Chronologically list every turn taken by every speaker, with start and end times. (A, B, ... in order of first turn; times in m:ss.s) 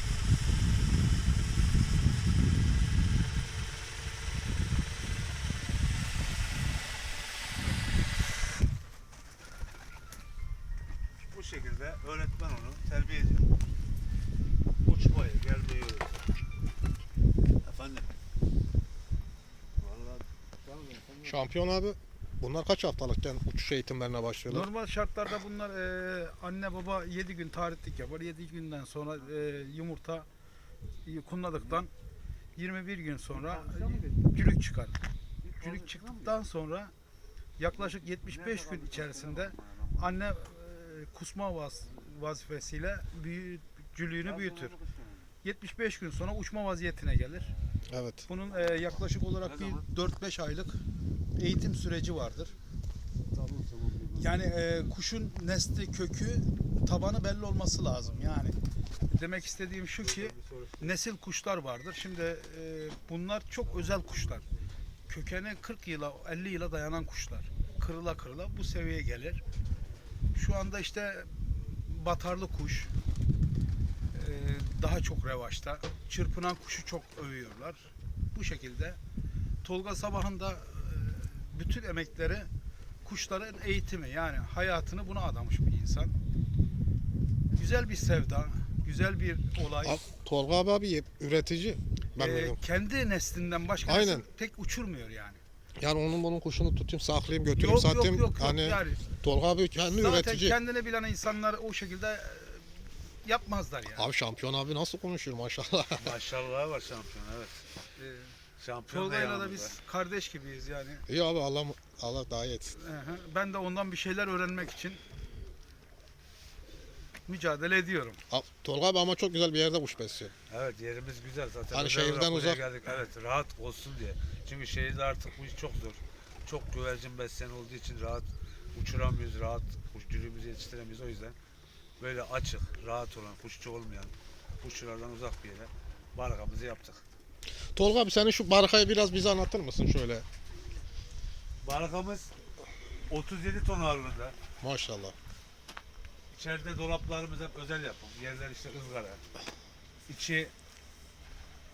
0:11.3-0:13.5 A
0:14.8-0:16.2 A
0:17.6-0:18.1 A
0:19.8-0:21.5 A
0:21.2-0:24.7 B
0:24.5-0:30.3 C
0:31.0-0:31.9 C
0:31.6-0:31.8 A
0:32.6-0:35.0 C
0:33.3-0:34.2 A
0:35.4-0:36.3 A
0:35.6-0:36.9 C
0:37.6-0:44.8 C
0:37.7-0:40.3 A
0:44.2-0:45.3 A
0:45.4-0:47.5 C
0:47.5-0:47.8 A
0:47.9-0:48.3 B
0:48.3-0:50.8 C
0:48.6-0:49.8 A
0:51.4-0:52.5 C
0:53.3-0:54.4 A
0:54.2-0:58.6 C
0:59.1-1:04.4 C
1:00.0-1:01.0 A
1:03.6-1:04.6 A
1:05.1-1:09.4 C
1:10.4-1:12.9 C
1:14.1-1:19.0 C
1:19.6-1:22.5 C
1:23.0-1:26.1 C
1:27.5-1:30.0 C
1:29.8-1:32.6 B
1:32.2-1:35.4 C
1:33.8-1:34.3 B
1:35.8-1:40.6 B
1:37.6-1:39.0 C
1:39.9-1:42.7 C
1:43.2-1:44.1 C
1:44.0-1:46.1 B
1:46.0-1:47.6 A
1:48.0-1:48.3 C
1:48.6-1:49.8 A
1:48.9-1:51.0 C
1:51.1-1:52.8 B
1:52.7-1:55.0 C
1:57.3-1:58.2 C
1:58.3-2:00.3 B
2:00.5-2:11.4 A
2:01.7-2:02.6 B
2:12.0-2:17.0 A
2:17.8-2:20.2 B
2:21.6-2:22.3 A
2:23.1-2:24.4 A
2:24.6-2:25.2 B
2:26.3-2:29.2 A
2:30.1-2:30.5 A